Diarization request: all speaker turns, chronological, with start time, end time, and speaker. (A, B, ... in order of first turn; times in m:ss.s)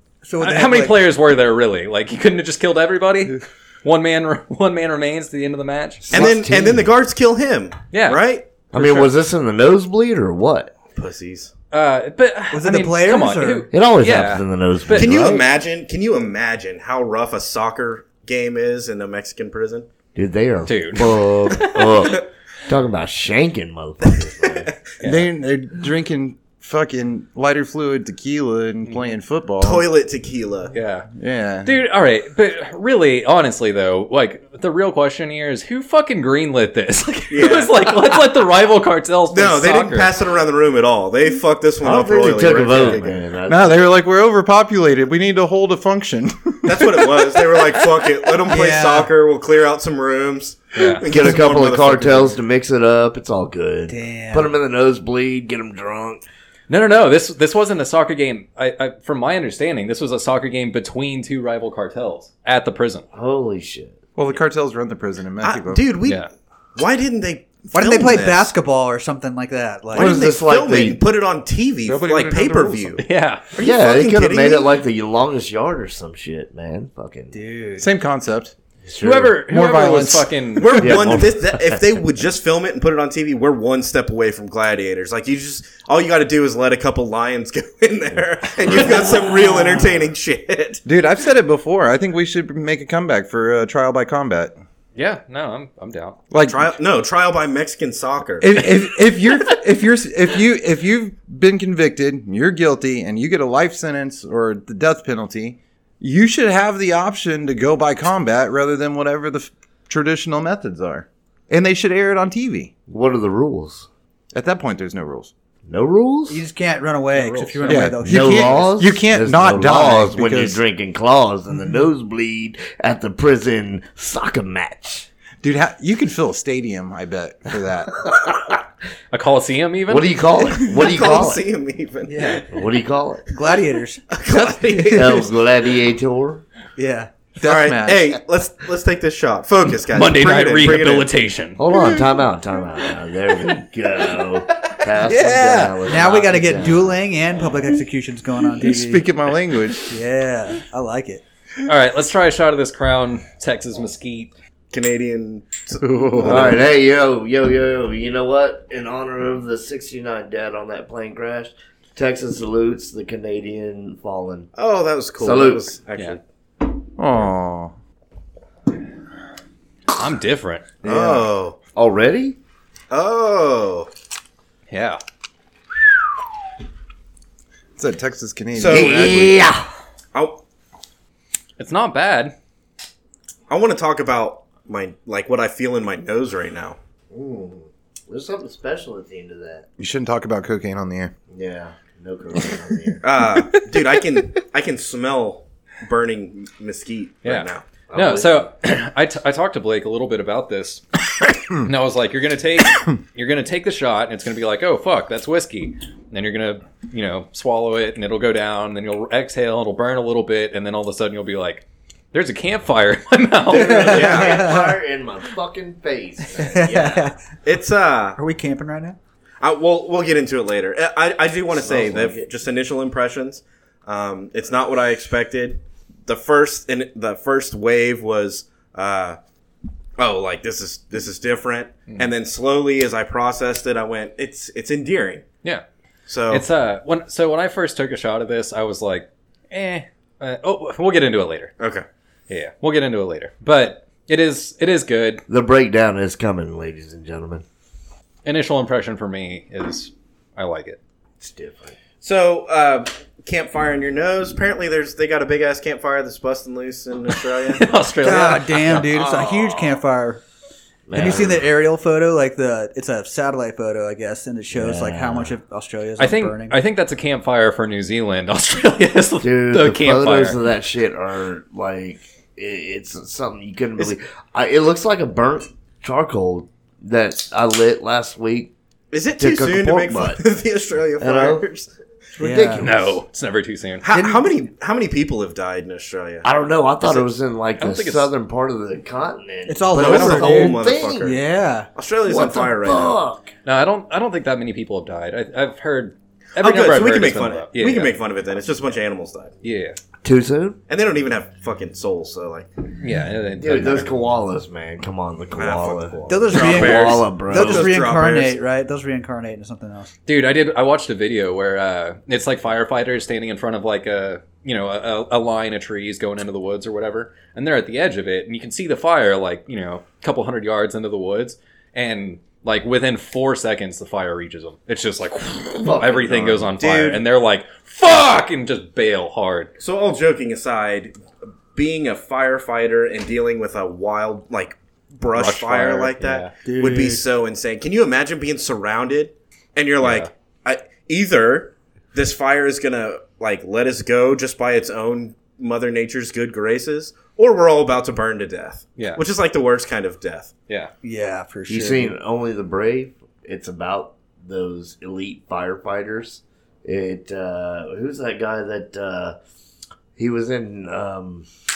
0:00.2-0:01.0 A
0:00.4-0:06.3 B
0:06.1-0:06.9 C
0:06.1-0:08.6 D
0:07.9-0:09.1 B
0:08.7-0:10.7 C
0:11.0-0:11.5 D
0:11.7-0:15.4 B
0:12.5-0:13.7 A
0:13.7-0:15.4 C
0:14.9-0:19.9 D
0:20.2-0:24.7 C
0:20.7-0:21.9 B
0:24.1-0:24.8 D
0:25.0-0:25.3 B
0:25.0-0:29.8 E
0:29.6-0:30.7 D
0:30.7-0:31.1 B
0:31.1-0:31.8 E
0:31.6-0:40.1 B
0:37.3-0:38.0 D
0:39.3-0:43.2 D
0:41.8-0:43.8 C
0:42.7-0:43.0 B
0:43.5-0:48.3 E
0:46.6-0:52.4 D
0:48.5-0:49.1 A
0:50.8-0:51.1 B
0:51.0-0:56.2 C
0:53.9-0:54.5 A
0:56.7-1:03.0 B
1:03.1-1:04.0 C
1:04.2-1:05.8 E
1:05.4-1:06.2 D
1:06.0-1:06.3 B
1:06.8-1:08.5 D
1:07.7-1:10.2 A
1:09.9-1:14.7 D
1:10.0-1:10.3 E
1:10.0-1:11.0 C
1:11.8-1:13.0 E
1:13.0-1:13.4 B
1:13.6-1:17.4 C
1:17.3-1:17.9 A
1:17.8-1:18.5 E
1:18.9-1:19.4 C
1:19.0-1:20.9 B
1:19.5-1:21.0 E
1:20.6-1:30.8 D
1:20.8-1:21.8 C
1:28.7-1:29.1 C
1:30.8-1:34.6 E
1:35.0-1:36.2 B
1:36.3-1:36.8 E
1:36.5-1:38.7 D
1:38.4-1:52.7 E
1:52.9-1:53.9 C
1:54.3-1:55.3 E
1:55.7-1:56.4 C
1:56.3-1:58.7 A
1:57.2-1:57.9 B
1:57.6-2:05.1 C
1:57.7-2:00.6 E
2:05.4-2:08.1 E
2:08.1-2:08.6 C
2:09.1-2:10.2 B
2:09.9-2:11.5 C
2:10.8-2:12.5 D
2:12.1-2:12.4 A
2:12.5-2:13.3 C
2:13.3-2:15.2 A
2:14.1-2:15.3 D
2:15.0-2:16.4 C
2:16.8-2:17.1 A
2:17.4-2:18.2 E
2:17.4-2:21.1 D
2:19.9-2:21.6 B
2:21.6-2:27.0 C
2:21.7-2:22.0 E
2:25.0-2:25.8 E
2:25.0-2:29.0 A
2:28.6-2:29.9 E
2:29.9-2:31.2 A
2:31.7-2:34.3 B
2:34.7-2:36.7 D
2:36.2-2:44.5 C
2:44.6-2:46.2 D
2:45.2-2:45.7 C
2:47.0-2:47.7 E
2:50.0-2:50.7 B
2:50.8-2:51.6 D
2:50.8-2:52.4 C
2:52.9-2:53.9 D
2:54.7-2:55.0 B
2:57.8-2:59.4 E
2:58.6-2:59.4 D
2:58.7-2:59.6 C
3:00.1-3:00.4 D
3:01.6-3:02.4 B
3:03.5-3:06.8 D
3:07.1-3:09.7 C
3:09.8-3:11.1 E
3:11.3-3:13.0 C
3:13.0-3:17.6 D
3:17.2-3:20.8 B
3:17.9-3:18.5 C
3:21.6-3:33.9 B
3:33.5-3:34.8 A
3:33.5-3:37.1 C
3:33.8-3:34.5 D
3:36.4-3:37.2 A
3:37.4-3:38.2 D
3:38.2-3:39.0 A
3:39.4-3:49.2 D
3:41.6-3:42.3 C
3:50.0-3:55.3 D
3:56.1-3:56.4 D
3:56.3-4:01.6 B
4:01.6-4:01.9 D
4:02.3-4:05.2 B
4:05.3-4:07.4 C
4:08.2-4:10.8 B
4:11.2-4:11.8 C
4:12.0-4:17.7 D
4:17.5-4:18.8 B
4:18.0-4:20.2 A
4:18.5-4:19.8 C
4:20.9-4:21.5 C
4:20.9-4:26.6 A
4:24.5-4:25.4 C
4:26.0-4:30.4 B
4:29.2-4:38.5 C
4:38.9-4:41.7 D
4:39.2-4:40.2 C
4:41.0-4:41.5 C
4:42.2-4:43.0 C
4:42.2-4:42.7 A
4:42.6-4:43.9 B
4:43.8-4:46.3 D
4:43.9-4:44.3 A
4:46.2-4:51.2 C
4:47.6-4:48.1 B
4:49.5-4:51.7 A
4:49.8-4:51.2 D
4:51.8-4:53.0 D
4:52.1-4:53.3 C
4:53.4-4:58.0 B
4:56.4-4:59.3 D
4:59.4-4:59.8 B
5:00.0-5:00.6 C
5:00.7-5:02.5 D
5:02.8-5:03.9 B
5:03.4-5:07.7 C
5:05.4-5:08.4 D
5:06.1-5:09.9 A
5:10.1-5:29.5 B
5:25.6-5:26.5 C
5:26.6-5:27.0 D
5:29.6-5:30.9 D
5:31.5-5:50.3 D
5:35.1-5:36.3 B
5:36.4-5:37.0 A
5:39.8-5:40.1 B
5:48.8-5:49.0 B
5:50.8-5:52.0 A
5:51.5-5:59.2 C
6:00.0-6:01.3 C